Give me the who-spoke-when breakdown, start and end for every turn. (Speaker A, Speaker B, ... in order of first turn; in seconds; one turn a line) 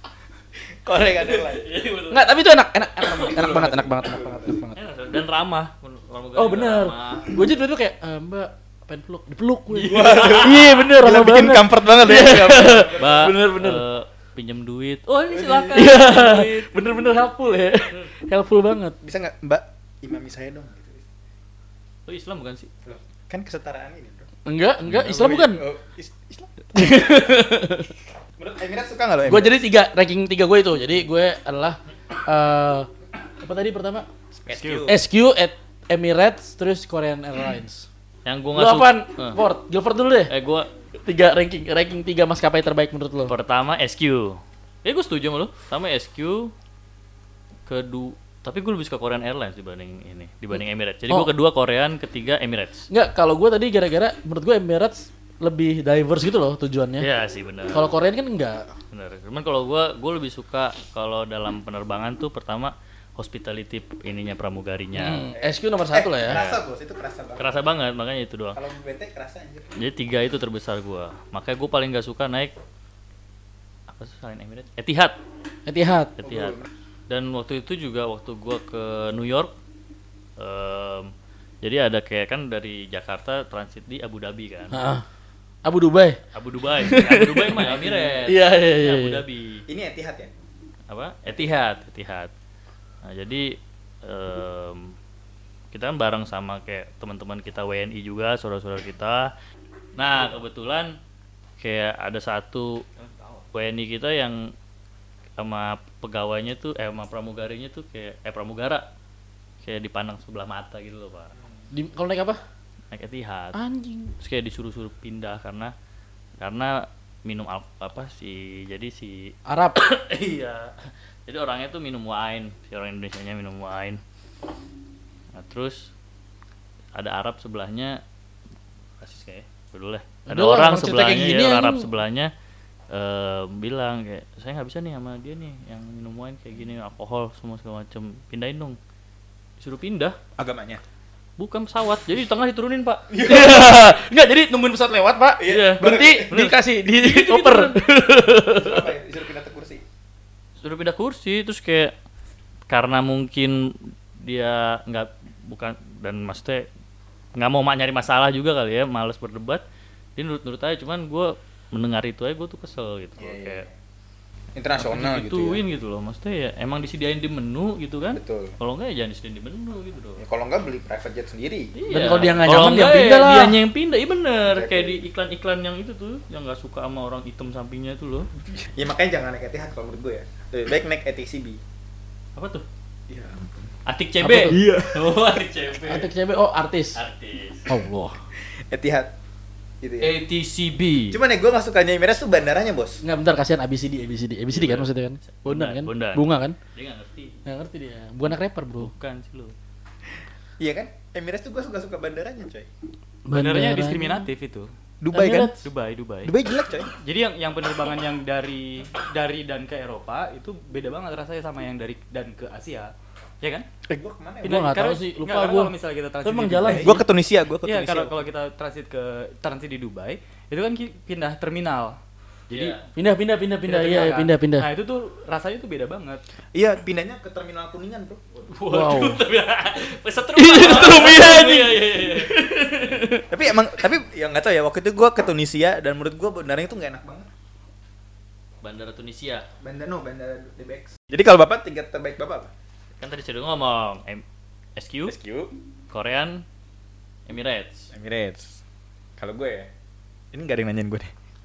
Speaker A: 0.8-1.7
Speaker B: 1.3-2.3
Speaker C: 2.1-4.8
Speaker A: 3.2-4.6
Speaker B: 4.8-7.4
Speaker C: 6.4-13.8
Speaker A: 9.8-13.4
Speaker B: 9.8-10.7
Speaker B: 12.9-17.0
Speaker A: 15.3-15.9
Speaker C: 15.7-19.0
Speaker A: 19.0-21.1
Speaker B: 22.1-22.7
Speaker A: 22.9-24.2
Speaker C: 24.5-25.6
Speaker A: 25.0-27.0
Speaker C: 26.7-27.9
Speaker A: 28.4-29.6
Speaker C: 29.3-32.9
Speaker C: 33.4-34.1
Speaker A: 34.3-35.0
Speaker D: 34.5-34.9
Speaker C: 34.9-37.9
Speaker B: 38.2-39.4
Speaker C: 38.5-40.3
Speaker B: 40.3-40.7
Speaker C: 41.0-43.3
Speaker B: 43.3-46.5
Speaker B: 47.7-52.9
Speaker C: 52.9-57.1
Speaker B: 57.0-57.9
Speaker C: 57.7-58.7
Speaker B: 58.9-65.3
Speaker C: 65.0-66.4
Speaker A: 65.3-67.5
Speaker B: 66.3-66.6
Speaker B: 67.4-68.6
Speaker A: 68.5-69.7
Speaker B: 69.8-72.5
Speaker B: 73.9-75.2
Speaker C: 75.7-76.2
Speaker B: 76.2-79.5
Speaker A: 76.2-76.7
Speaker B: 80.4-84.8
Speaker C: 84.7-85.0
Speaker C: 85.7-86.2
Speaker B: 86.3-89.6
Speaker C: 86.8-89.2
Speaker A: 89.7-90.3
Speaker B: 90.9-92.3
Speaker B: 93.0-95.0
Speaker B: 95.7-99.3
Speaker B: 100.0-101.0
Speaker B: 101.6-102.8
Speaker B: 103.5-104.5
Speaker B: 105.4-108.9
Speaker B: 109.6-111.3
Speaker C: 111.7-112.4
Speaker B: 112.9-113.6
Speaker C: 113.5-114.1
Speaker B: 114.2-115.7
Speaker B: 116.4-124.0
Speaker C: 119.5-119.8
Speaker B: 125.3-125.9
Speaker B: 127.0-128.0
Speaker B: 129.0-132.3
Speaker C: 130.3-131.9
Speaker B: 132.9-138.8
Speaker B: 139.6-140.2
Speaker A: 140.4-140.8
Speaker B: 141.4-143.1
Speaker A: 143.1-143.9
Speaker C: 143.2-148.8
Speaker A: 145.4-146.3
Speaker B: 145.5-147.8
Speaker A: 148.5-149.8
Speaker B: 150.6-151.9
Speaker B: 152.7-156.7
Speaker B: 157.3-159.6
Speaker B: 160.2-163.7
Speaker A: 163.2-163.7
Speaker A: 164.6-165.6
Speaker B: 164.8-170.2
Speaker A: 168.1-168.6
Speaker A: 170.2-171.7
Speaker B: 171.8-178.3
Speaker C: 171.9-173.6
Speaker A: 174.5-175.0
Speaker A: 178.4-181.6
Speaker B: 182.4-182.7
Speaker A: 183.1-183.7
Speaker B: 183.9-186.1
Speaker C: 184.2-184.6
Speaker A: 184.5-185.2
Speaker C: 185.9-187.0
Speaker B: 186.9-187.7
Speaker C: 187.7-188.2
Speaker A: 188.6-189.1
Speaker A: 189.8-190.2
Speaker B: 190.0-191.2
Speaker A: 191.1-193.0
Speaker C: 193.0-196.6
Speaker B: 194.5-197.4
Speaker C: 197.5-198.9
Speaker B: 198.8-199.6
Speaker A: 200.6-202.7
Speaker C: 203.3-204.2
Speaker D: 203.3-204.7
Speaker A: 205.0-205.6
Speaker C: 205.1-205.6
Speaker D: 205.6-206.3
Speaker A: 206.2-206.9
Speaker D: 207.0-213.7
Speaker A: 213.9-214.8
Speaker D: 214.4-217.0
Speaker C: 214.4-217.1
Speaker A: 216.7-218.2
Speaker D: 217.6-222.0
Speaker D: 222.5-222.8
Speaker B: 222.5-222.8
Speaker C: 223.0-224.7
Speaker D: 223.7-226.2
Speaker A: 226.5-228.2
Speaker B: 228.5-233.0
Speaker C: 228.7-229.2
Speaker C: 230.4-233.2
Speaker A: 233.3-237.3
Speaker B: 238.6-239.5
Speaker A: 239.6-242.5
Speaker B: 243.0-244.2
Speaker B: 244.8-245.2
Speaker A: 245.1-245.5
Speaker B: 245.9-246.4
Speaker B: 247.3-247.9
Speaker A: 247.9-248.6
Speaker A: 249.2-249.7
Speaker A: 250.3-251.1